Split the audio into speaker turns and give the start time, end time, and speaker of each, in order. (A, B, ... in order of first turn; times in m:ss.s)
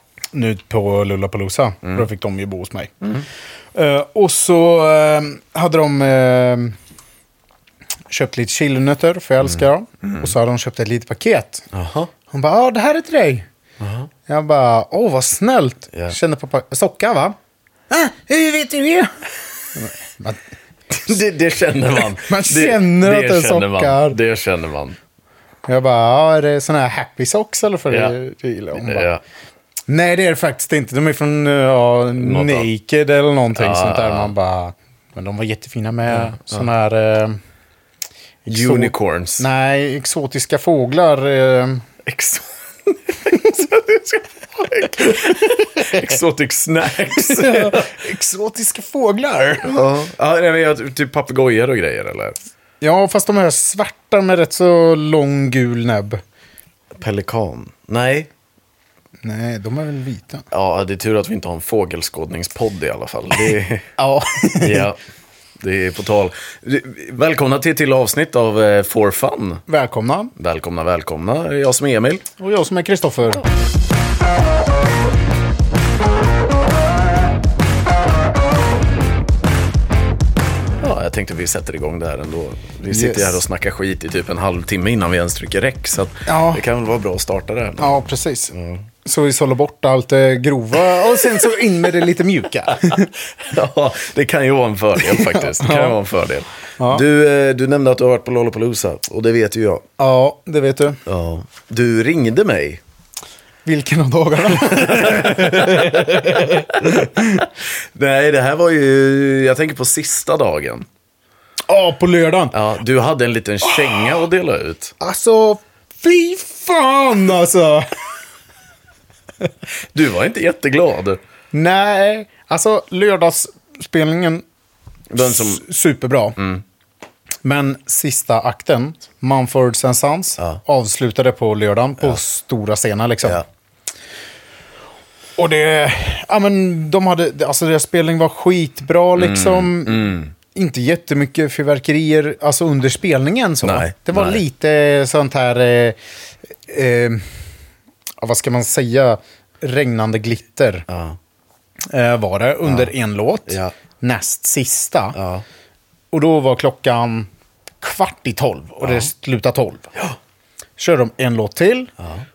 0:00.3-0:02.9 A
0:03.7-0:06.8 A
0:08.1-0:11.7 A
0:10.0-0:10.3 B
0:11.7-0:12.1 B
0:12.3-0:13.5 A
0:13.8-0:14.1 B
0:14.3-0:17.4 A
0:17.9-0:19.1 A
0:19.8-0:20.4 A
0:20.9-0:25.0 B
0:22.2-0:24.2 A
0:25.7-0:29.1 A
0:27.9-0:28.2 B
0:28.7-0:29.2 B
0:29.9-0:37.4 A
0:32.2-0:32.7 B
0:33.6-0:34.3 B
0:36.1-0:36.7 B
0:38.4-0:41.9 A
0:38.5-0:39.4 B
0:42.0-0:47.9 B
0:45.8-0:46.0 A
0:47.1-0:49.8 A
0:49.6-0:52.4 B
0:52.8-0:56.2 A
0:57.0-0:58.3 B
0:59.2-1:00.5 A
1:00.5-1:03.9 B
1:04.0-1:04.9 A
1:04.6-1:05.0 B
1:05.6-1:09.6 B
1:09.7-1:10.3 A
1:10.4-1:12.3 B
1:12.4-1:13.4 A
1:20.8-1:28.8 B
1:22.9-1:23.4 A
1:26.3-1:26.6 A
1:27.8-1:33.1 A
1:30.9-1:31.4 B
1:32.8-1:39.9 B
1:35.0-1:36.0 A
1:36.8-1:37.0 A
1:40.0-1:41.0 A
1:41.1-1:42.8 B
1:43.6-1:47.5 A
1:44.6-1:50.9 B
1:51.7-1:52.6 A
1:52.5-1:54.9 B
1:53.8-1:54.1 A
1:55.0-1:57.9 A
1:59.9-2:01.2 B
2:01.5-2:04.4 A
2:05.1-2:05.6 B
2:05.2-2:06.4 A
2:06.4-2:06.6 B
2:07.4-2:13.4 A
2:15.4-2:26.0 A
2:19.2-2:20.3 B
2:23.6-2:24.4 B
2:26.7-2:27.3 A
2:28.2-2:30.9 A
2:30.9-2:31.2 B
2:31.9-2:35.2 A
2:32.6-2:32.9 B
2:33.5-2:33.7 B
2:35.2-2:35.4 B
2:36.1-2:37.3 A
2:37.8-2:39.9 A
2:38.8-2:39.1 B
2:40.8-2:41.9 A
2:42.0-2:42.2 B